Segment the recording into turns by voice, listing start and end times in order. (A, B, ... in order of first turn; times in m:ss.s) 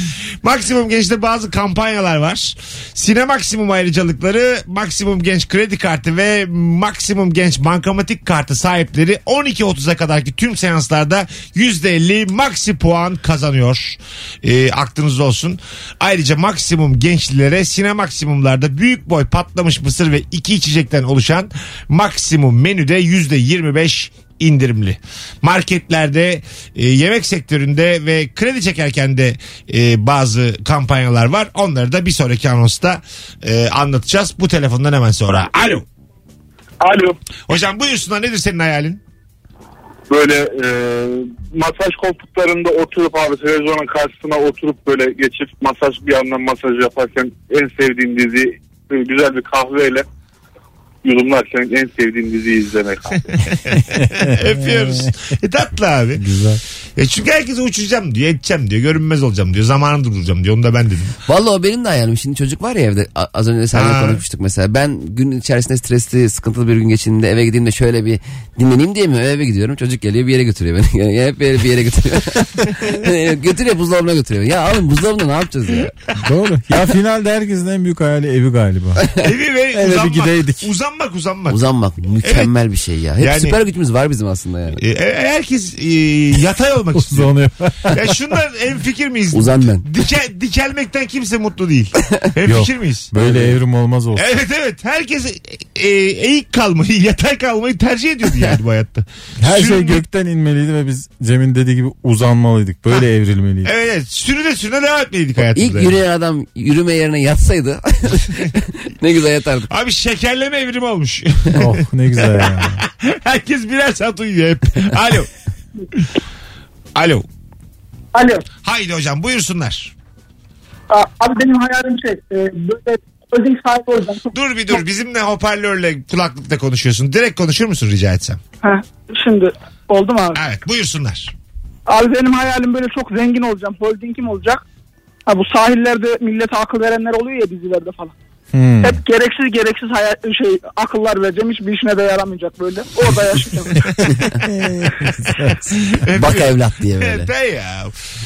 0:00.4-0:35.9 A
0:36.8-0:37.2 B
0:37.5-0:39.0 A
0:40.1-0:50.0 B
0:51.0-0:53.4 B
0:53.7-0:56.2 A
0:53.9-0:55.1 C
0:56.2-0:56.6 C
0:57.0-1:01.2 A
1:01.3-1:15.9 D
1:03.7-1:04.2 A
1:16.2-1:19.1 C
1:19.2-1:21.6 A
1:19.7-1:20.7 C
1:21.5-1:24.8 D
1:22.2-1:22.5 A
1:23.2-1:23.6 A
1:24.8-1:27.3 A
1:27.0-1:28.1 C
1:27.9-1:33.1 A
1:29.3-1:29.9 D
1:32.5-1:34.2 C
1:33.2-1:33.5 D
1:34.2-1:40.0 A
1:39.4-1:43.7 C
1:43.6-1:46.0 A
1:45.5-1:49.7 D
1:49.7-1:55.3 A
1:51.6-1:52.8 C
1:57.0-1:57.2 A
1:58.2-1:58.4 E
1:58.6-1:59.9 A
2:00.9-2:04.3 E
2:04.3-2:08.4 A
2:08.6-2:10.4 E
2:10.4-2:11.3 A
2:11.9-2:14.6 E
2:15.3-2:18.2 E
2:18.5-2:19.0 C
2:18.8-2:23.8 E
2:24.0-2:25.7 C
2:25.8-2:28.0 A
2:26.1-2:27.3 D